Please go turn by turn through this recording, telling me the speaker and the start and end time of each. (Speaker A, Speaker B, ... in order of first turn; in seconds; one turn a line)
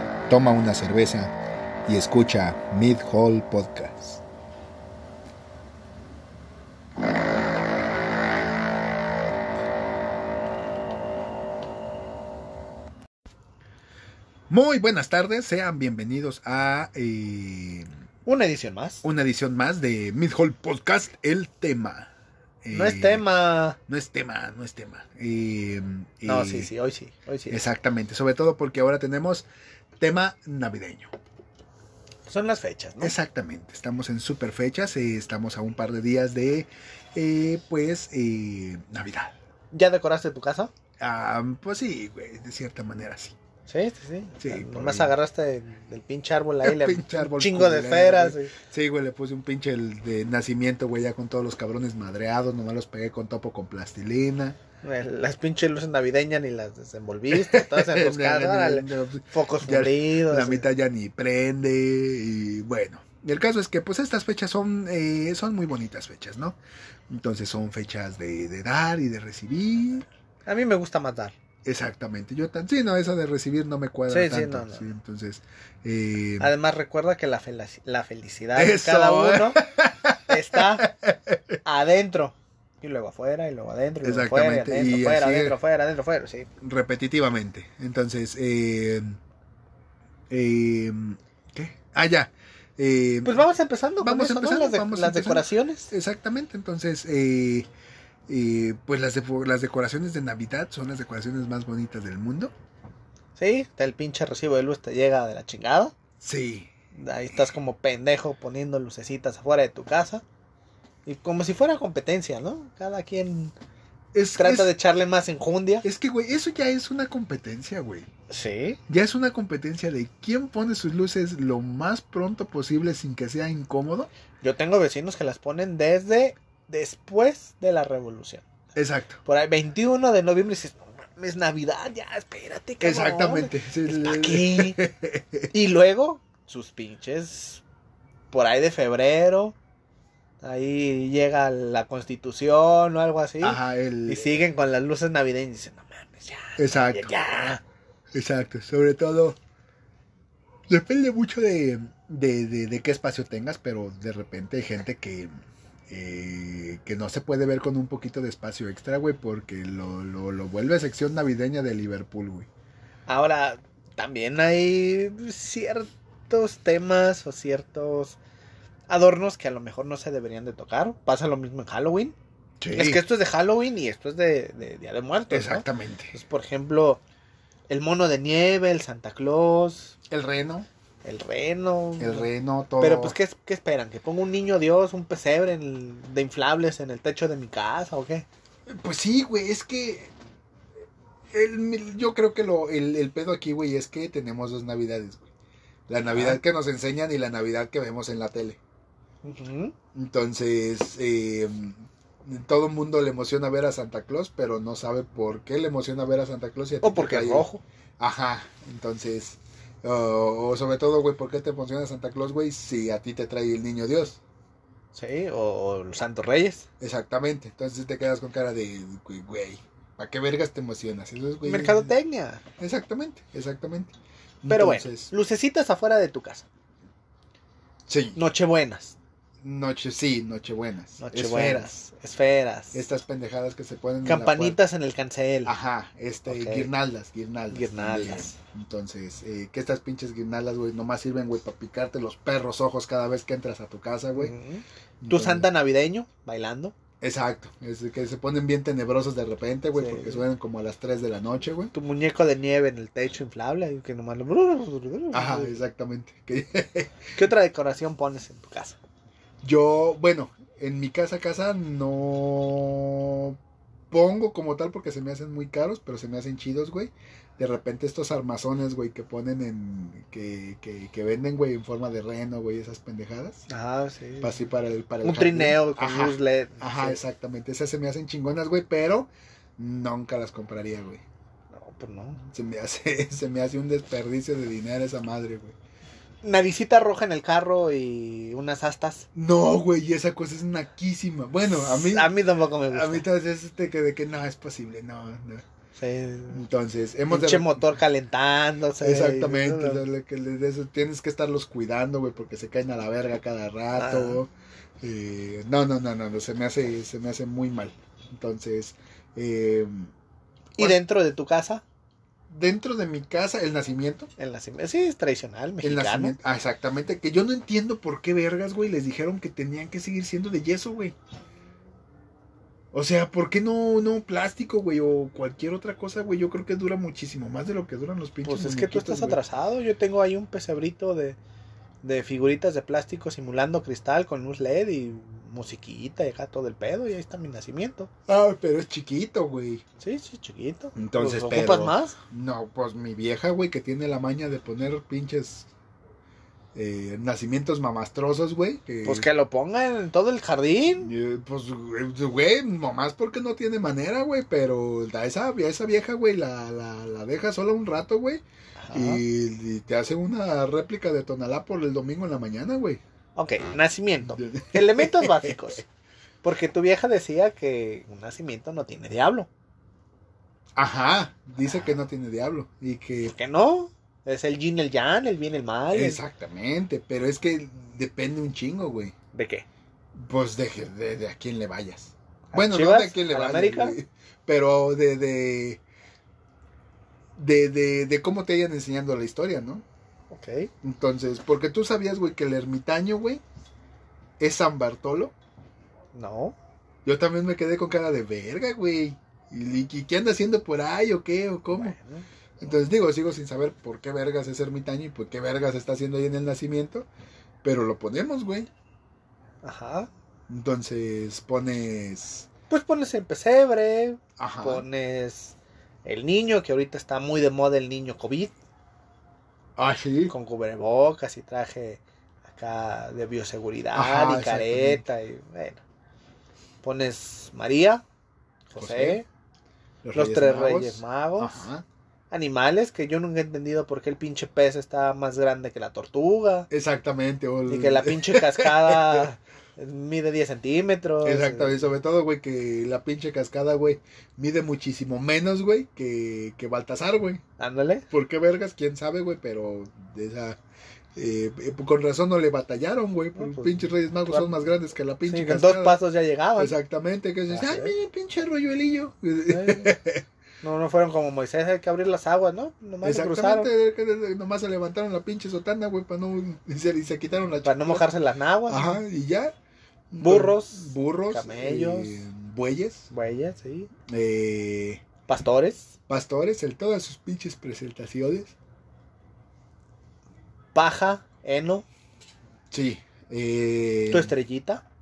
Speaker A: 0.3-1.4
Speaker A: 1.9-4.2
Speaker A: 14.5-17.9
Speaker B: 18.3-19.0
Speaker A: 19.0-22.1
Speaker A: 22.6-23.2
Speaker B: 22.7-23.8
Speaker A: 23.9-26.7
Speaker B: 26.2-27.6
Speaker A: 27.5-29.4
Speaker A: 30.0-31.1
Speaker B: 32.3-33.2
Speaker A: 33.0-39.4
Speaker B: 39.7-40.7
Speaker A: 41.0-43.3
Speaker B: 43.7-48.5
Speaker A: 44.4-45.1
Speaker A: 46.6-54.6
Speaker B: 54.8-60.7
Speaker A: 57.3-66.6
Speaker A: 67.1-70.1
Speaker B: 70.5-71.3
Speaker A: 71.6-76.5
Speaker B: 74.1-74.9
Speaker B: 76.4-79.6
Speaker A: 78.5-81.6
Speaker B: 80.3-80.9
Speaker B: 81.6-86.5
Speaker A: 84.0-85.6
Speaker A: 86.6-89.2
Speaker A: 90.3-93.4
Speaker B: 93.2-95.9
Speaker A: 94.0-97.7
Speaker A: 98.3-102.5
Speaker B: 103.4-105.9
Speaker A: 106.2-106.7
Speaker B: 106.9-110.2
Speaker B: 111.0-113.5
Speaker A: 114.1-114.7
Speaker B: 114.4-115.9
Speaker A: 115.8-118.1
Speaker B: 118.3-118.8
Speaker A: 118.9-124.1
Speaker B: 124.4-128.5
Speaker A: 128.8-129.2
Speaker B: 129.3-134.8
Speaker A: 132.8-135.5
Speaker B: 135.5-137.6
Speaker B: 138.3-139.6
Speaker B: 140.4-147.6
Speaker A: 143.4-144.3
Speaker A: 146.6-147.2
Speaker A: 148.1-149.4
Speaker A: 150.7-155.3
Speaker A: 155.9-162.5
Speaker B: 163.1-168.2
Speaker B: 168.9-172.2
Speaker A: 172.6-173.0
Speaker B: 172.7-177.0
Speaker A: 175.3-176.1
Speaker B: 177.7-179.9
Speaker A: 180.1-180.7
Speaker B: 181.0-188.3
Speaker A: 182.0-183.2
Speaker A: 188.7-190.1
Speaker A: 191.3-195.3
Speaker A: 195.9-198.6
Speaker B: 196.1-196.4
Speaker B: 199.2-199.8
Speaker A: 199.9-207.5
Speaker B: 206.8-207.6
Speaker A: 208.0-214.2
Speaker B: 214.9-216.7
Speaker A: 216.8-221.9
Speaker B: 221.4-222.4
Speaker A: 222.6-225.1
Speaker B: 224.5-226.5
Speaker A: 227.9-228.2
Speaker B: 228.2-229.0
Speaker A: 229.4-231.7
Speaker B: 231.0-232.8
Speaker A: 232.7-234.6
Speaker B: 234.1-235.5
Speaker A: 235.4-244.3
Speaker B: 236.3-236.7
Speaker B: 237.5-238.4
Speaker B: 244.1-246.8
Speaker A: 245.0-245.5
Speaker A: 247.0-251.7
Speaker B: 249.8-250.2
Speaker B: 251.7-255.6
Speaker A: 255.1-257.1
Speaker B: 257.1-258.8
Speaker A: 259.4-263.4
Speaker A: 263.9-273.5
Speaker B: 273.5-274.4
Speaker A: 274.2-281.0
Speaker B: 275.0-277.0
Speaker B: 281.5-282.2
Speaker A: 282.3-285.6
Speaker B: 286.2-289.1
Speaker A: 289.1-292.1
Speaker B: 291.5-293.1
Speaker A: 292.7-295.4
Speaker B: 295.8-296.4
Speaker A: 296.3-297.7
Speaker B: 297.1-299.8
Speaker A: 298.8-309.9
Speaker B: 303.8-304.2
Speaker B: 310.6-311.6
Speaker A: 312.3-314.1
Speaker B: 314.2-316.1
Speaker A: 315.6-320.9
Speaker A: 322.7-329.2
Speaker B: 328.2-331.2
Speaker B: 331.8-337.9
Speaker A: 338.1-339.6
Speaker B: 339.8-342.0
Speaker A: 340.8-345.5
Speaker A: 346.5-349.1
Speaker B: 348.8-350.9
Speaker A: 350.8-362.8
Speaker B: 358.6-359.0
Speaker B: 363.1-365.6
Speaker A: 364.0-365.6
Speaker B: 366.2-369.3
Speaker A: 370.6-373.1
Speaker B: 371.4-371.8
Speaker B: 373.1-376.0
Speaker A: 375.7-378.9
Speaker B: 379.1-379.4
Speaker A: 379.9-385.6
Speaker B: 382.3-383.8
Speaker A: 387.1-389.6
Speaker B: 390.1-390.5
Speaker A: 390.6-393.2
Speaker A: 394.2-395.1
Speaker B: 395.9-396.4
Speaker A: 396.8-401.8
Speaker B: 401.5-402.0
Speaker A: 402.4-406.9
Speaker A: 407.4-408.5
Speaker B: 409.4-409.9
Speaker A: 410.3-412.3
Speaker B: 412.5-418.3
Speaker A: 414.2-414.6
Speaker A: 419.6-420.1
Speaker B: 420.1-425.6
Speaker A: 423.8-424.8
Speaker B: 426.6-427.8
Speaker B: 428.5-429.1
Speaker A: 428.6-429.0
Speaker A: 429.8-431.6
Speaker B: 429.9-431.5
Speaker B: 432.1-436.5
Speaker A: 436.5-439.1
Speaker B: 437.5-441.6
Speaker A: 441.0-447.2
Speaker B: 447.4-447.9
Speaker A: 447.9-450.4
Speaker A: 450.9-455.8
Speaker B: 453.1-454.3
Speaker B: 455.1-456.5
Speaker A: 456.4-460.0
Speaker B: 457.3-457.7
Speaker B: 459.3-459.8
Speaker B: 460.4-463.5
Speaker A: 462.8-467.9
Speaker B: 467.4-468.8
Speaker A: 468.5-469.3
Speaker A: 469.9-472.9
Speaker B: 470.0-472.1
Speaker B: 472.9-473.7
Speaker A: 473.9-474.8
Speaker B: 475.1-475.7
Speaker A: 475.9-478.4
Speaker B: 480.5-481.7
Speaker A: 482.5-484.1
Speaker B: 483.9-484.6